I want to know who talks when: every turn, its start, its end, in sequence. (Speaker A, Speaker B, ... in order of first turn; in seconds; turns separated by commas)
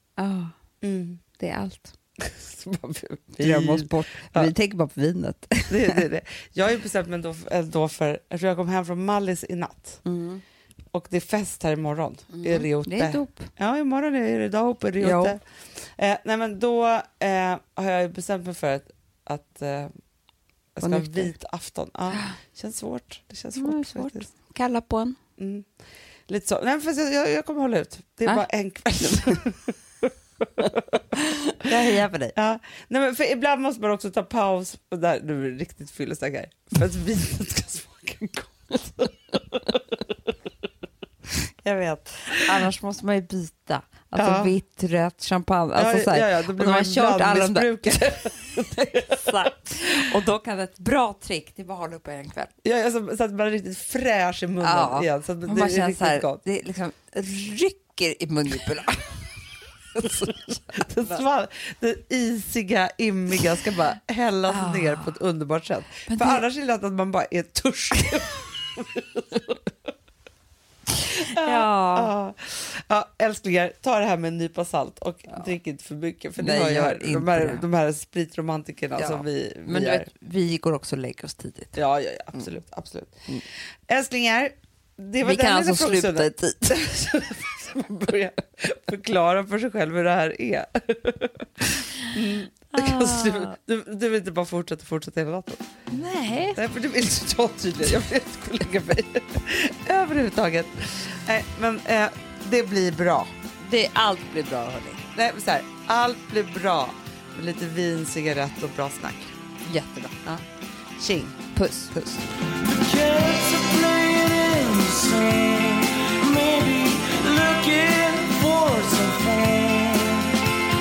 Speaker A: 0.2-0.5, Speaker B: 0.8-1.2, Speaker A: 1.4-1.9, Speaker B: 2.2-4.5, Speaker A: 3.4-6.0, Speaker B: 5.7-10.0, Speaker A: 10.1-10.4, Speaker B: 10.9-19.9, Speaker A: 12.3-13.5, Speaker A: 15.0-15.4, Speaker B: 20.8-24.3, Speaker A: 20.8-21.3, Speaker A: 23.6-25.2, Speaker B: 25.4-25.7, Speaker B: 26.3-31.0, Speaker A: 29.0-29.4, Speaker A: 31.6-32.3, Speaker B: 32.3-40.0, Speaker A: 41.6-52.5, Speaker B: 44.2-44.5, Speaker B: 45.8-49.3, Speaker B: 52.6-56.4, Speaker A: 54.6-59.3, Speaker A: 59.9-61.2, Speaker B: 60.0-69.6, Speaker A: 64.5-65.1, Speaker A: 66.1-66.4, Speaker B: 71.2-80.1, Speaker A: 71.4-72.1, Speaker A: 76.4-77.6, Speaker A: 79.0-81.8, Speaker B: 81.8-83.2, Speaker B: 83.9-91.5, Speaker A: 85.2-87.2, Speaker B: 92.1-95.7, Speaker A: 92.7-93.5, Speaker A: 95.9-96.6, Speaker B: 96.5-103.3, Speaker A: 103.6-105.0, Speaker B: 105.2-109.3, Speaker A: 109.7-110.4, Speaker B: 111.0-111.4, Speaker A: 111.5-112.3, Speaker C: 112.4-120.4